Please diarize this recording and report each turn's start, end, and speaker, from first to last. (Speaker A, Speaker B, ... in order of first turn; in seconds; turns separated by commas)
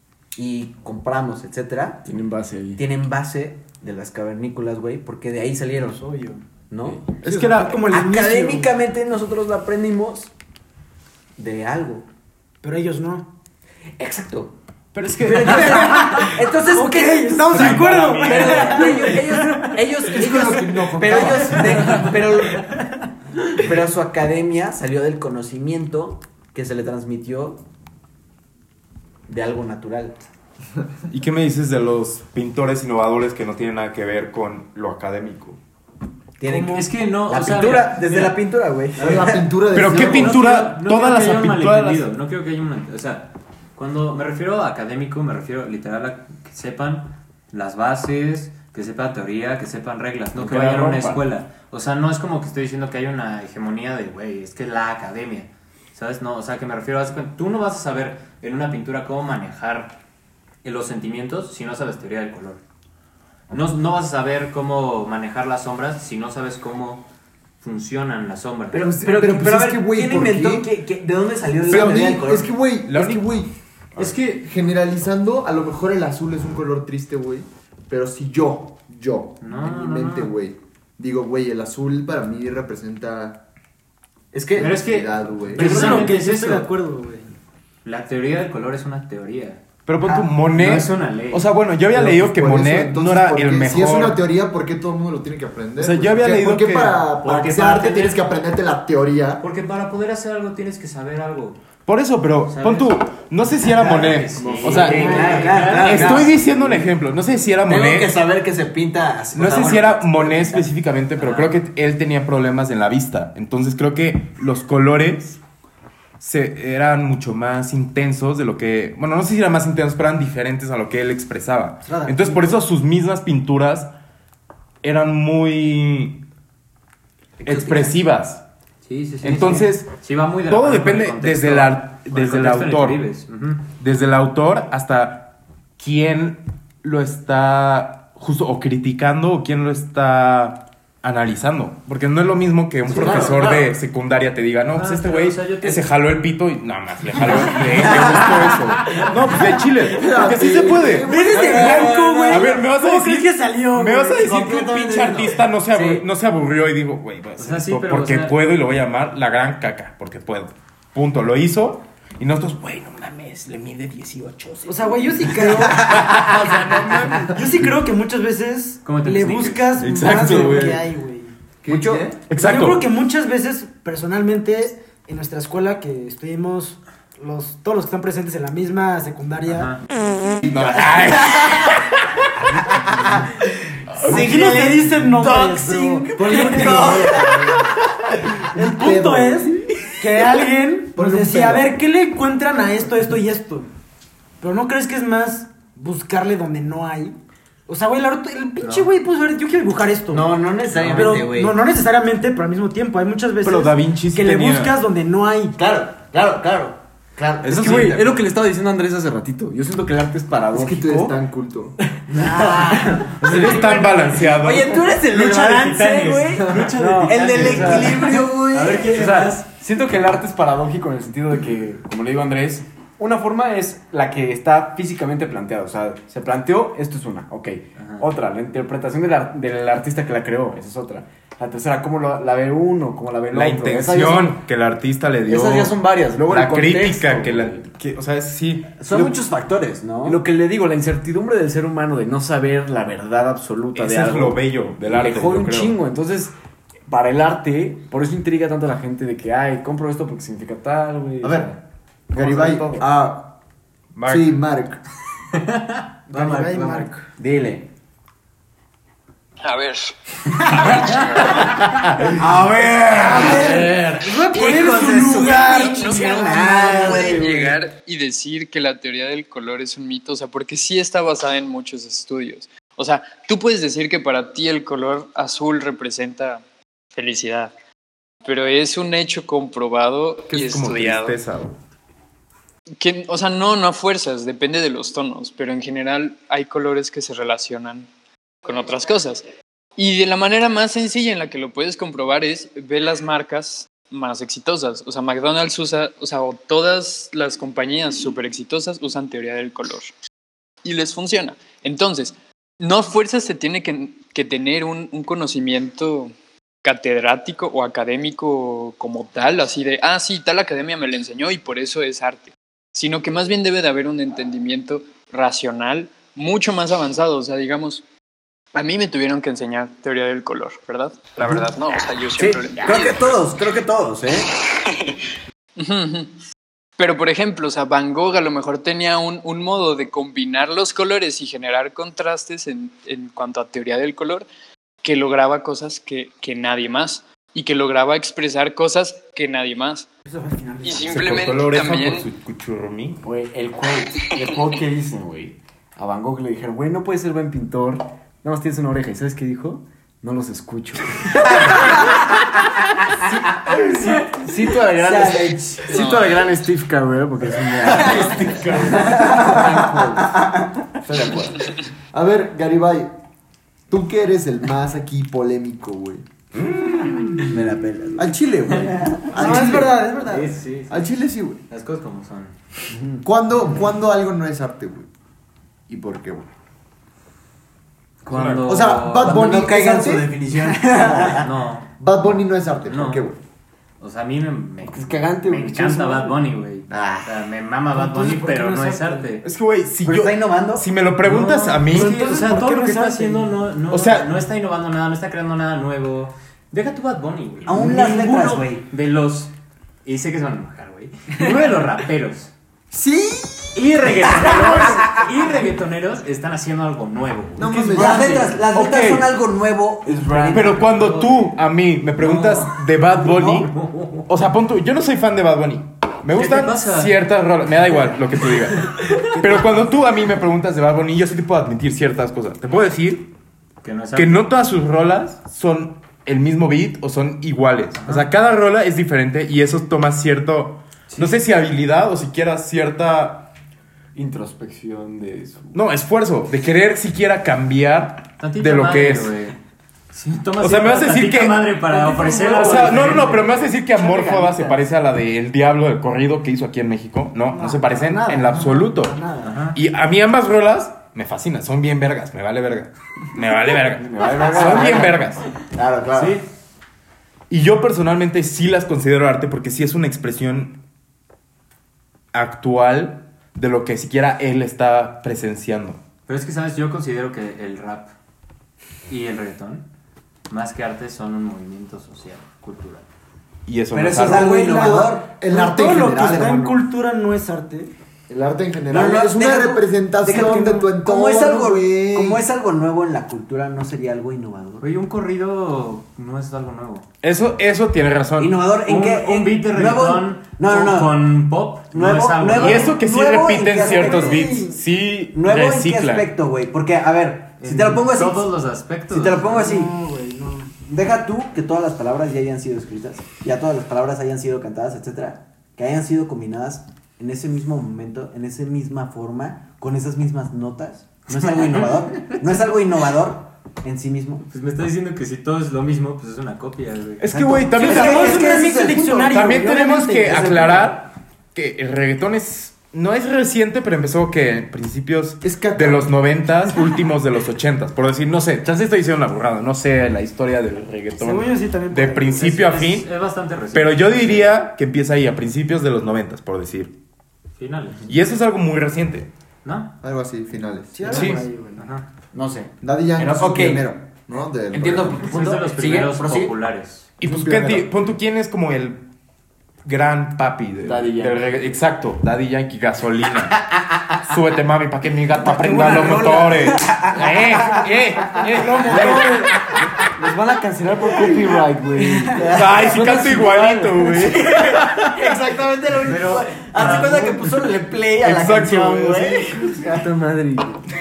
Speaker A: 0.3-2.1, Speaker B: 2.0-2.8, Speaker A: 2.7-6.0, Speaker C: 5.8-6.4, Speaker A: 6.7-7.0, Speaker C: 7.2-8.7, Speaker D: 7.2-7.9, Speaker A: 7.9-10.3, Speaker A: 11.4-12.1, Speaker C: 12.6-13.3, Speaker A: 14.0-14.6, Speaker D: 14.9-16.4, Speaker A: 15.2-22.7, Speaker C: 15.4-19.8, Speaker D: 17.5-18.9, Speaker E: 20.0-22.2, Speaker A: 23.6-27.6, Speaker A: 29.3-30.2, Speaker D: 31.1-35.6, Speaker A: 36.4-39.6, Speaker F: 36.5-38.4, Speaker C: 36.5-36.8, Speaker E: 39.0-40.4, Speaker D: 39.7-42.1, Speaker F: 39.8-60.0, Speaker D: 50.4-51.2, Speaker F: 60.6-62.6, Speaker F: 63.5-67.1, Speaker F: 67.6-68.8, Speaker A: 68.7-72.5, Speaker E: 68.7-70.7, Speaker E: 71.7-83.5, Speaker D: 71.7-72.3, Speaker D: 72.8-73.3, Speaker F: 74.0-74.5, Speaker F: 79.4-80.3, Speaker A: 84.3-84.8, Speaker E: 84.4-86.1, Speaker F: 84.6-86.7, Speaker C: 85.5-87.3, Speaker F: 87.8-89.6, Speaker D: 89.9-94.2, Speaker F: 90.5-91.5, Speaker E: 91.9-99.4, Speaker D: 95.8-97.1, Speaker F: 97.2-98.2, Speaker F: 99.4-101.6, Speaker D: 101.9-108.2, Speaker F: 102.5-102.9, Speaker F: 103.7-106.3, Speaker E: 104.3-105.7, Speaker A: 104.6-106.9, Speaker A: 107.7-110.7, Speaker D: 109.3-115.4, Speaker F: 111.2-111.5, Speaker D: 116.2-123.9, Speaker C: 121.9-122.5, Speaker D: 124.8-126.2, Speaker A: 127.4-128.0, Speaker D: 127.4-128.4, Speaker F: 128.8-133.7, Speaker D: 129.2-133.1, Speaker D: 133.8-166.9, Speaker A: 142.9-143.7, Speaker F: 142.9-143.5, Speaker F: 144.7-145.8, Speaker A: 147.7-148.5, Speaker E: 149.9-152.0, Speaker C: 151.0-154.5, Speaker A: 151.6-152.3, Speaker A: 154.5-156.0, Speaker F: 157.4-158.4, Speaker C: 164.7-165.9, Speaker A: 165.5-166.6, Speaker E: 166.4-167.4, Speaker C: 167.3-171.3, Speaker F: 168.8-169.8, Speaker D: 169.8-170.8, Speaker E: 171.6-172.3, Speaker A: 171.7-172.1, Speaker D: 172.3-172.9, Speaker C: 172.3-179.8, Speaker F: 179.5-179.8, Speaker E: 180.4-181.1, Speaker D: 180.5-182.3, Speaker D: 183.9-184.2, Speaker A: 184.0-187.8, Speaker C: 184.0-187.3, Speaker E: 186.2-187.7, Speaker C: 188.3-193.7, Speaker E: 188.5-189.9, Speaker E: 191.0-191.6, Speaker C: 194.4-197.2, Speaker C: 197.7-200.4, Speaker F: 198.6-198.9, Speaker A: 200.1-201.6, Speaker F: 200.7-201.2, Speaker C: 200.9-205.6, Speaker D: 203.4-204.8, Speaker A: 205.6-207.9, Speaker D: 207.4-208.2, Speaker B: 207.4-211.2, Speaker E: 210.5-211.8, Speaker A: 212.1-219.4, Speaker B: 212.2-213.9, Speaker D: 213.2-214.9, Speaker C: 215.2-218.2, Speaker F: 216.1-219.4, Speaker B: 216.8-234.3, Speaker F: 227.8-228.1, Speaker D: 233.3-238.8, Speaker A: 235.3-236.0, Speaker B: 235.4-237.6, Speaker A: 238.8-240.2, Speaker B: 240.0-246.3, Speaker D: 243.8-245.8, Speaker B: 246.9-251.5, Speaker E: 251.2-251.6, Speaker E: 252.1-252.8, Speaker B: 252.2-252.8, Speaker A: 252.8-253.3, Speaker D: 253.9-254.4, Speaker E: 254.1-254.8, Speaker F: 255.3-255.8, Speaker C: 256.1-256.9, Speaker A: 256.1-257.6, Speaker B: 256.5-257.6, Speaker G: 259.4-261.8, Speaker A: 262.1-267.5, Speaker C: 263.1-267.0, Speaker G: 265.2-276.4, Speaker G: 276.9-277.5, Speaker G: 278.2-281.2, Speaker D: 280.3-281.6, Speaker G: 282.8-287.9, Speaker G: 288.4-289.2, Speaker G: 289.8-299.9, Speaker G: 300.6-306.1, Speaker G: 306.6-317.8, Speaker G: 318.5-323.2, Speaker A: 322.2-324.3, Speaker G: 324.7-325.0, Speaker G: 325.6-326.1, Speaker G: 326.8-334.3, Speaker G: 334.8-339.9, Speaker C: 340.1-341.0, Speaker G: 340.6-342.1, Speaker D: 340.9-343.0, Speaker B: 343.0-351.7, Speaker G: 344.0-344.4, Speaker A: 353.6-354.2, Speaker B: 353.6-360.2, Speaker A: 354.7-355.8, Speaker G: 355.7-356.4, Speaker A: 357.6-360.1, Speaker C: 357.9-359.3, Speaker E: 359.3-359.8, Speaker B: 360.9-361.2, Speaker E: 360.9-363.0, Speaker E: 363.7-366.1, Speaker D: 366.4-367.3, Speaker A: 367.3-369.2, Speaker E: 368.0-369.9, Speaker C: 369.1-370.4, Speaker F: 369.2-370.9, Speaker E: 370.7-371.4, Speaker F: 371.5-372.4, Speaker A: 372.7-373.0, Speaker E: 373.0-374.9, Speaker E: 375.7-376.3, Speaker F: 378.1-379.3, Speaker D: 378.1-378.4, Speaker E: 378.4-380.2, Speaker A: 379.0-381.3, Speaker F: 381.1-383.1, Speaker E: 381.8-383.2, Speaker F: 383.8-389.2, Speaker B: 384.7-386.2, Speaker E: 386.7-387.1, Speaker C: 387.7-389.1, Speaker D: 389.2-392.0, Speaker A: 389.9-390.7, Speaker F: 391.0-399.3, Speaker C: 391.7-393.4, Speaker D: 393.7-394.1, Speaker A: 397.4-398.6, Speaker F: 399.9-402.3, Speaker E: 402.7-404.8, Speaker F: 403.5-408.3, Speaker E: 407.4-408.4, Speaker A: 407.7-411.0, Speaker D: 408.5-409.2, Speaker B: 410.1-410.4, Speaker D: 410.3-413.5, Speaker F: 410.6-411.3, Speaker F: 412.0-412.6, Speaker A: 413.1-413.5, Speaker F: 413.5-413.9, Speaker D: 414.1-423.1, Speaker F: 416.1-416.9, Speaker C: 419.2-419.4, Speaker F: 423.6-424.3, Speaker D: 423.9-433.3, Speaker F: 427.8-428.1, Speaker B: 433.9-435.6, Speaker D: 435.5-439.1, Speaker F: 438.2-439.4, Speaker F: 439.9-443.3, Speaker D: 440.4-441.5, Speaker C: 441.7-443.2, Speaker D: 442.3-449.0, Speaker B: 443.4-444.5, Speaker C: 447.3-449.4, Speaker F: 449.2-449.6, Speaker D: 449.5-455.3, Speaker B: 453.8-454.9, Speaker A: 454.0-456.2, Speaker F: 455.9-456.3, Speaker D: 457.3-460.6, Speaker D: 462.1-465.8, Speaker F: 466.1-467.9, Speaker F: 468.9-469.7, Speaker F: 470.3-472.9, Speaker D: 473.5-474.4, Speaker A: 473.7-475.1, Speaker C: 474.1-477.7, Speaker E: 474.3-476.6, Speaker E: 478.1-482.2, Speaker A: 478.7-484.7, Speaker C: 480.1-480.7, Speaker F: 484.6-486.9, Speaker D: 487.0-488.4, Speaker A: 488.2-494.4, Speaker F: 488.6-492.8, Speaker D: 492.3-496.1, Speaker C: 493.6-494.6, Speaker A: 495.1-498.3, Speaker F: 497.4-499.5, Speaker A: 498.9-499.8, Speaker C: 499.4-500.5, Speaker A: 500.6-514.2, Speaker F: 511.1-512.2, Speaker F: 514.3-517.0, Speaker D: 517.0-518.5, Speaker A: 517.1-519.2, Speaker C: 517.5-520.6, Speaker D: 519.1-532.9, Speaker E: 525.2-525.9, Speaker C: 531.0-532.3, Speaker F: 532.2-534.4, Speaker D: 533.5-536.7, Speaker F: 537.4-537.9, Speaker D: 537.9-539.1, Speaker F: 539.4-539.7, Speaker E: 539.8-541.1, Speaker C: 540.7-541.7, Speaker F: 540.9-541.9, Speaker D: 540.9-541.2, Speaker A: 542.1-543.7, Speaker E: 542.6-545.3, Speaker A: 544.5-546.3, Speaker F: 545.0-546.9, Speaker D: 547.0-548.8, Speaker E: 547.0-547.7, Speaker D: 549.6-553.4, Speaker B: 550.6-551.4, Speaker D: 554.0-559.5, Speaker A: 555.2-556.9, Speaker C: 558.7-559.3, Speaker A: 558.7-559.1, Speaker B: 558.7-559.0, Speaker B: 560.0-562.3, Speaker A: 562.1-569.8, Speaker D: 562.2-565.0, Speaker B: 562.9-563.7, Speaker F: 565.9-567.2, Speaker D: 568.0-569.5, Speaker B: 569.5-570.6